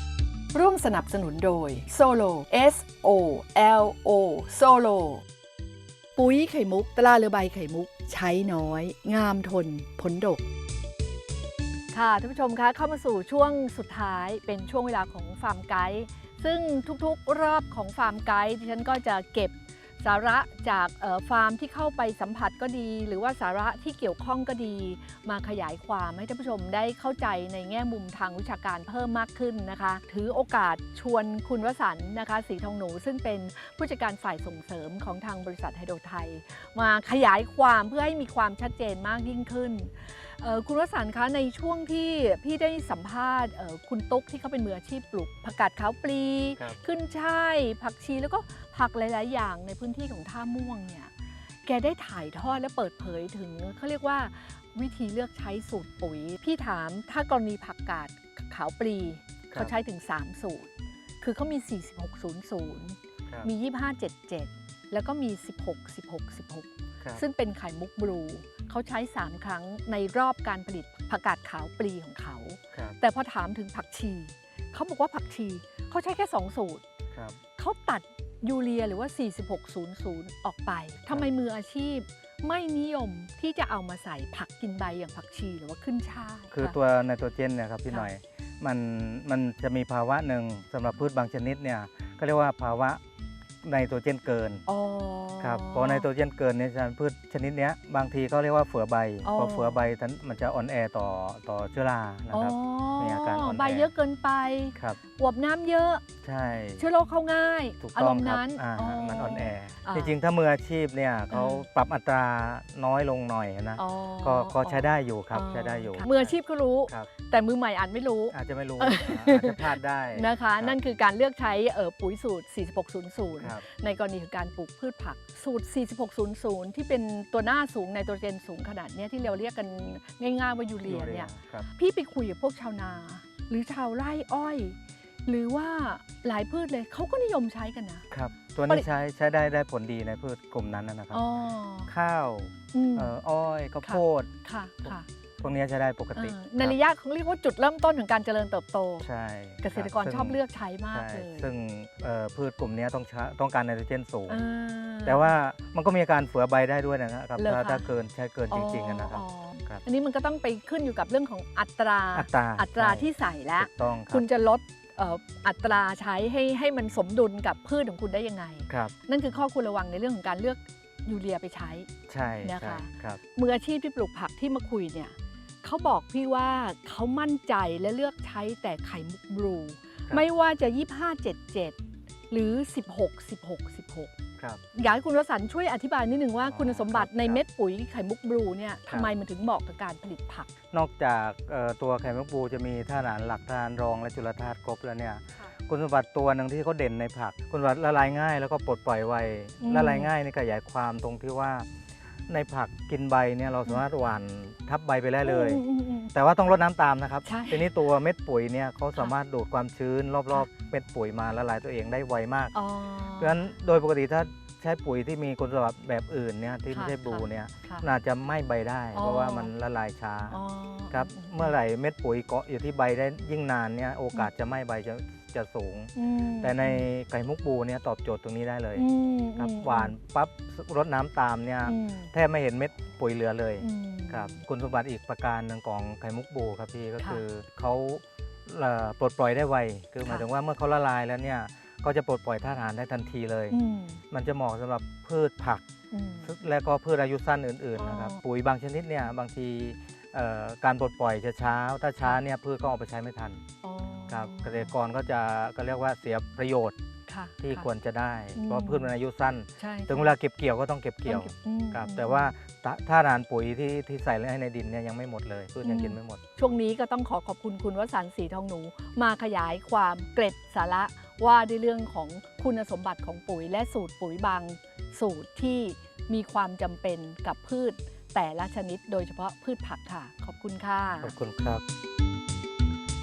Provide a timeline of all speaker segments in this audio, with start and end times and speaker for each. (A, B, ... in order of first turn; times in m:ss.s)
0:00.5-0:05.2 A
0:06.2-0:10.4 A
0:11.9-0:51.1 A
0:51.6-1:16.8 A
1:17.6-1:26.8 A
1:26.5-1:33.0 B
1:33.6-1:34.6 B
1:34.7-1:36.1 A
1:35.4-1:43.9 B
1:39.2-1:39.8 A
1:42.3-1:46.0 A
1:46.2-1:46.9 B
1:46.8-1:50.2 A
1:47.8-1:57.1 B
1:51.3-1:51.6 A
1:53.8-2:18.1 A
1:58.3-2:00.8 B
2:10.9-2:11.7 B
2:18.1-2:21.3 B
2:21.1-2:21.9 A
2:21.9-2:26.8 B
2:22.7-2:23.1 A
2:23.8-2:25.1 A
2:26.2-2:29.1 A
2:29.0-2:34.5 B
2:29.6-2:31.5 A
2:34.3-2:35.3 A
2:35.0-2:39.8 B
2:37.4-2:37.9 A
2:38.5-2:51.9 A
2:42.1-2:44.2 B
2:48.7-2:48.9 B
2:52.1-2:53.2 B
2:52.4-3:01.8 A
3:02.3-3:04.1 A
3:04.7-3:10.5 A
3:06.4-3:07.4 B
3:08.9-3:09.2 B
3:10.7-3:21.7 B
3:19.6-3:20.1 A
3:22.3-3:32.5 B
3:25.2-3:26.1 A
3:27.2-3:27.7 A
3:32.5-3:33.4 A
3:33.2-3:40.4 B
3:36.7-3:37.9 A
3:38.9-3:39.5 A
3:40.3-3:41.6 A
3:40.9-4:03.6 B
3:46.0-3:46.8 A
3:48.8-3:49.9 A
3:51.6-3:52.1 A
3:53.6-3:54.4 A
4:00.0-4:00.3 A
4:03.5-4:04.0 A
4:04.1-4:05.6 B
4:05.9-4:06.3 A
4:06.2-4:13.4 B
4:07.8-4:08.2 A
4:13.6-4:14.8 A
4:14.1-4:16.8 B
4:17.1-4:17.7 A
4:17.4-4:26.2 B
4:18.4-4:18.9 A
4:19.6-4:20.2 A
4:21.1-4:22.3 A
4:25.6-4:41.2 A
4:41.0-4:41.6 B